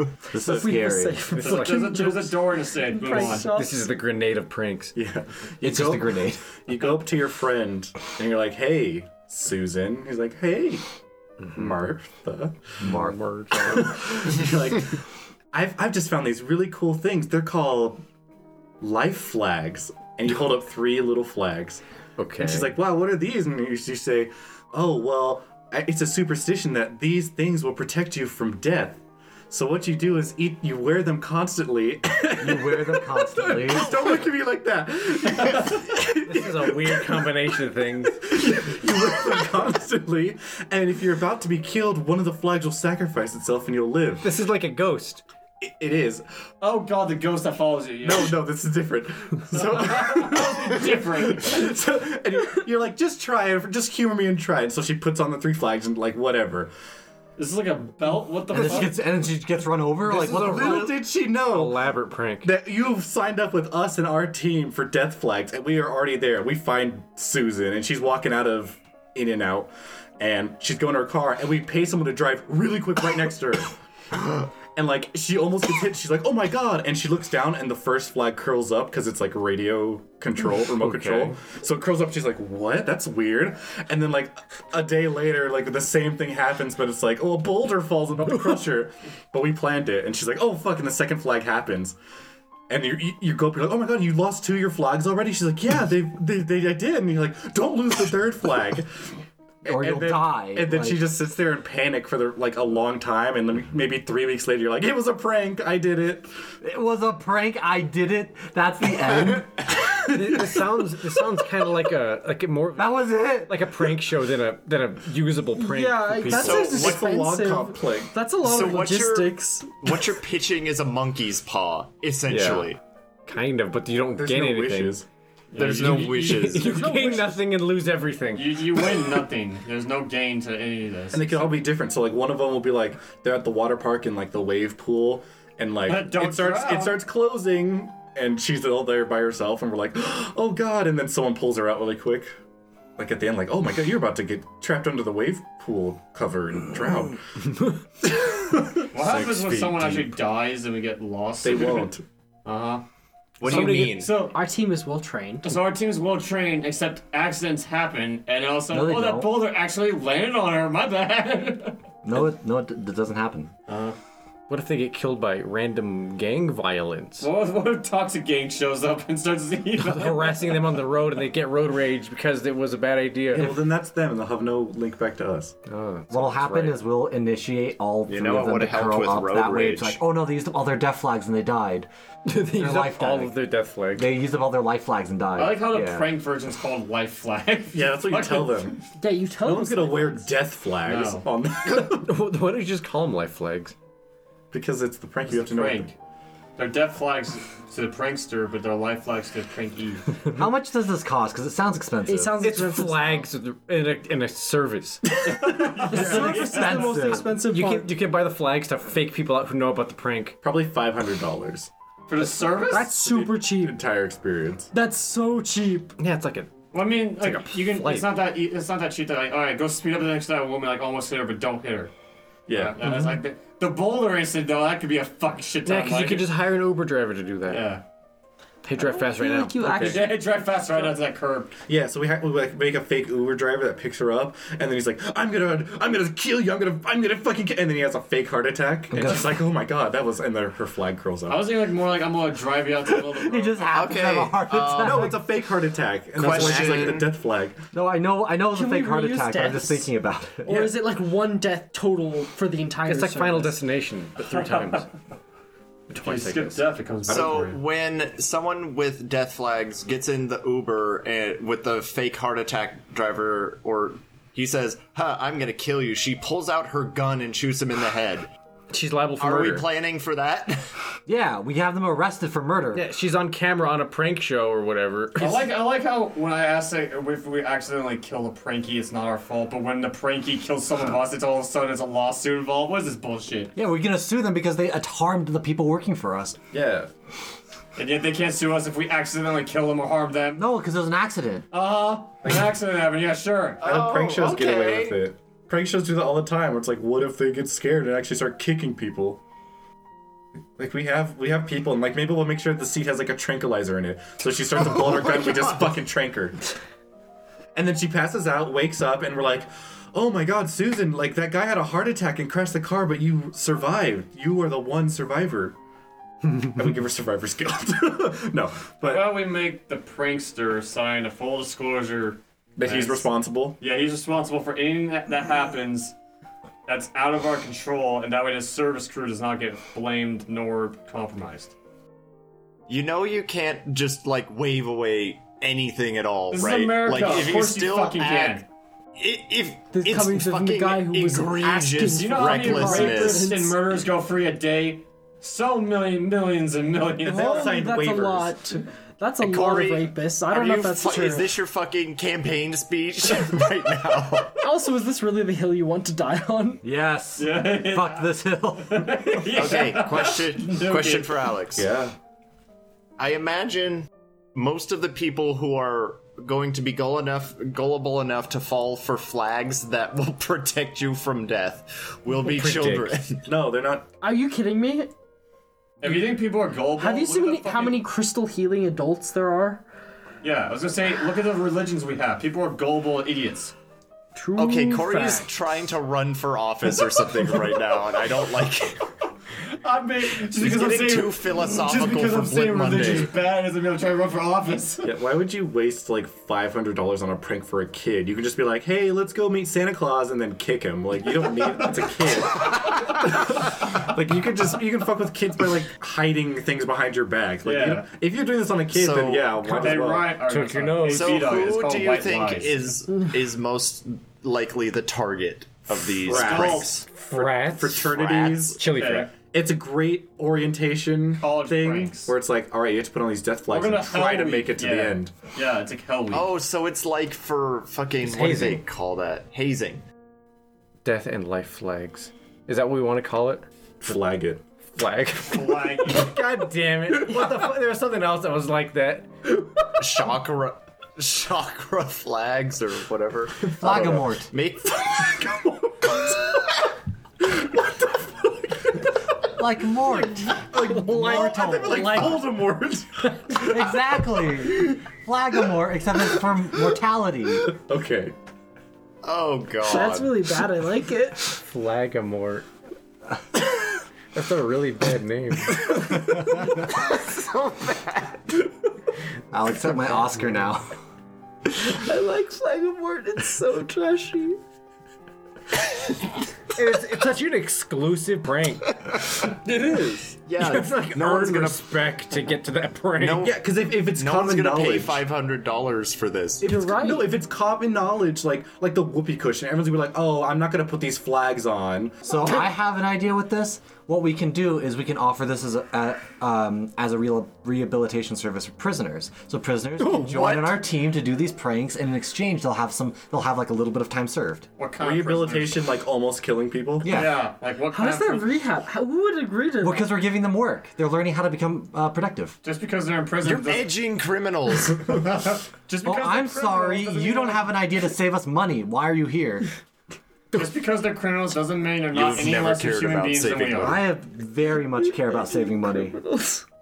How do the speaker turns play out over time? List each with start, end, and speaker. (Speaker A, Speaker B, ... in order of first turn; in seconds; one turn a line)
Speaker A: 0.3-1.3
Speaker B: 0.4-0.7
Speaker C: 0.4-3.9
Speaker D: 1.4-2.1
Speaker E: 1.4-3.5
Speaker D: 3.1-5.0
Speaker B: 5.0-10.8
Speaker A: 5.6-6.5
Speaker B: 11.5-13.0
Speaker A: 12.8-13.2
Speaker D: 12.8-14.3
Speaker B: 13.5-18.0
Speaker B: 18.8-21.8
Speaker D: 22.2-22.7
Speaker B: 22.4-37.4
Speaker A: 32.4-34.1
Speaker D: 36.2-38.2
Speaker B: 38.2-44.3
Speaker D: 44.2-45.2
Speaker B: 45.6-46.2
Speaker E: 46.6-48.4
Speaker B: 48.0-56.7
Speaker E: 49.6-51.6
Speaker E: 57.4-59.0
Speaker A: 58.5-61.0
Speaker B: 60.0-92.0
Speaker D: 60.3-62.5
Speaker D: 80.4-81.4
Speaker B: 92.7-106.3
Speaker A: 99.7-101.0
Speaker A: 106.6-110.6
Speaker D: 110.1-116.6
Speaker A: 112.8-113.7
Speaker C: 115.5-119.9
Speaker F: 116.3-117.0
Speaker B: 116.3-118.1
Speaker F: 118.4-122.8
Speaker D: 122.3-122.7
Speaker D: 123.3-125.0
Speaker B: 124.2-125.1
Speaker E: 125.5-127.2
Speaker F: 125.6-126.9
Speaker D: 125.9-128.9
Speaker C: 126.6-127.4
Speaker E: 128.3-131.6
Speaker B: 131.1-142.3
Speaker E: 135.9-137.0
Speaker B: 143.0-147.2
Speaker B: 148.0-150.1
Speaker E: 148.9-151.9
Speaker B: 151.4-152.0
Speaker E: 152.4-152.8
Speaker F: 153.4-154.1
Speaker E: 153.4-154.4
Speaker D: 153.4-154.0
Speaker C: 154.3-155.6
Speaker E: 155.4-161.8
Speaker A: 158.7-159.3
Speaker A: 162.0-163.5
Speaker E: 163.7-164.0
Speaker D: 164.5-167.3
Speaker E: 167.2-170.6
Speaker D: 169.8-173.6
Speaker B: 173.3-175.6
Speaker D: 175.7-176.8
Speaker A: 176.1-181.9
Speaker F: 178.1-180.0
Speaker D: 182.3-184.1
Speaker A: 182.6-186.1
Speaker E: 185.3-188.8
Speaker B: 187.7-188.8
Speaker C: 189.0-190.3
Speaker B: 189.4-192.1
Speaker E: 190.8-191.3
Speaker D: 191.7-193.7
Speaker B: 194.5-195.9
Speaker E: 195.3-195.9
Speaker E: 196.6-200.2
Speaker A: 200.3-202.4
Speaker C: 202.1-203.3
Speaker D: 202.4-205.1
Speaker E: 205.4-206.9
Speaker C: 205.9-207.9
Speaker A: 205.9-207.3
Speaker D: 206.6-210.4
Speaker B: 210.4-211.7
Speaker E: 212.1-212.9
Speaker B: 212.6-214.7
Speaker C: 212.7-213.8
Speaker C: 214.7-216.0
Speaker D: 216.0-216.5
Speaker E: 216.7-221.9
Speaker D: 217.2-218.2
Speaker B: 222.5-222.9
Speaker E: 222.5-226.4
Speaker D: 225.7-227.8
Speaker E: 227.5-227.8
Speaker D: 228.6-230.2
Speaker C: 228.8-230.2
Speaker E: 229.8-231.5
Speaker B: 231.7-241.5
Speaker A: 238.9-239.4
Speaker E: 241.3-243.9
Speaker A: 243.1-245.2
Speaker F: 243.7-245.2
Speaker B: 244.7-247.6
Speaker F: 246.2-247.1
Speaker A: 247.7-250.8
Speaker C: 248.5-249.9
Speaker C: 250.4-253.6
Speaker D: 252.9-254.9
Speaker E: 254.2-254.8
Speaker D: 255.9-256.6
Speaker E: 255.9-257.6
Speaker F: 257.1-268.3
Speaker D: 268.7-269.7
Speaker F: 269.2-270.7
Speaker A: 271.1-272.9
Speaker D: 272.7-275.5
Speaker E: 275.2-283.5
Speaker A: 283.6-286.4
Speaker B: 286.5-286.9
Speaker E: 287.8-290.5
Speaker A: 290.4-291.5
Speaker E: 291.5-293.6
Speaker B: 292.2-292.5
Speaker F: 293.6-295.0
Speaker B: 293.6-299.2
Speaker B: 300.6-306.4
Speaker B: 307.6-315.6
Speaker B: 316.2-319.2
Speaker E: 318.8-323.1
Speaker B: 322.6-323.6
Speaker E: 323.6-325.9
Speaker E: 326.7-331.6
Speaker F: 332.7-338.4
Speaker E: 336.3-338.5
Speaker F: 339.0-343.3
Speaker C: 339.7-343.8
Speaker E: 341.9-347.3
Speaker B: 347.0-348.5
Speaker C: 347.1-351.3
Speaker F: 349.2-354.4
Speaker C: 354.4-356.6
Speaker A: 356.6-359.4
Speaker E: 357.2-361.3
Speaker F: 359.3-361.7
Speaker B: 361.6-361.9
Speaker F: 363.0-373.3
Speaker D: 372.2-373.1
Speaker B: 373.2-373.9
Speaker C: 374.0-374.9
Speaker E: 375.8-377.9
Speaker C: 376.8-379.6
Speaker E: 380.2-383.6
Speaker C: 384.1-385.3
Speaker F: 384.4-388.8
Speaker E: 389.6-394.9
Speaker F: 390.3-393.1
Speaker B: 394.8-410.2
Speaker E: 401.3-401.9
Speaker E: 407.4-407.9
Speaker F: 408.7-409.4
Speaker E: 409.4-412.8
Speaker D: 410.1-411.3
Speaker F: 410.8-416.9
Speaker B: 415.7-418.6
Speaker E: 416.1-416.8
Speaker D: 416.9-417.9
Speaker F: 417.8-418.6
Speaker D: 418.6-419.1
Speaker E: 418.7-419.1
Speaker B: 419.2-425.1
Speaker E: 421.2-422.1
Speaker E: 423.5-426.3
Speaker F: 426.1-429.8
Speaker D: 428.0-428.6
Speaker D: 430.8-433.4
Speaker B: 433.8-434.5
Speaker D: 434.7-439.2
Speaker E: 435.3-436.2
Speaker F: 439.8-445.2
Speaker A: 443.6-444.3
Speaker B: 443.6-444.0
Speaker B: 444.8-446.3
Speaker B: 447.3-448.9
Speaker A: 449.4-452.2
Speaker B: 449.9-454.8
Speaker D: 450.7-452.1
Speaker A: 453.4-457.6
Speaker B: 457.5-458.1
Speaker F: 459.0-460.3
Speaker C: 459.6-461.3
Speaker D: 461.3-462.5
Speaker D: 464.1-466.7
Speaker A: 469.3-470.7
Speaker C: 471.6-474.4
Speaker D: 476.6-483.3
Speaker F: 480.3-481.7
Speaker F: 483.0-486.4
Speaker B: 483.2-485.1
Speaker C: 486.4-487.1
Speaker B: 486.4-492.1
Speaker A: 492.1-504.5
Speaker D: 499.8-500.6
Speaker F: 500.2-500.4
Speaker E: 504.6-505.8
Speaker B: 504.8-507.0
Speaker A: 506.8-507.2
Speaker E: 506.8-508.4
Speaker C: 507.7-510.0
Speaker A: 509.6-512.4
Speaker E: 512.4-513.7
Speaker F: 513.2-515.0
Speaker E: 514.8-517.5
Speaker A: 515.8-519.5
Speaker E: 520.3-523.8
Speaker F: 521.9-523.8
Speaker A: 523.5-526.0
Speaker C: 525.2-526.4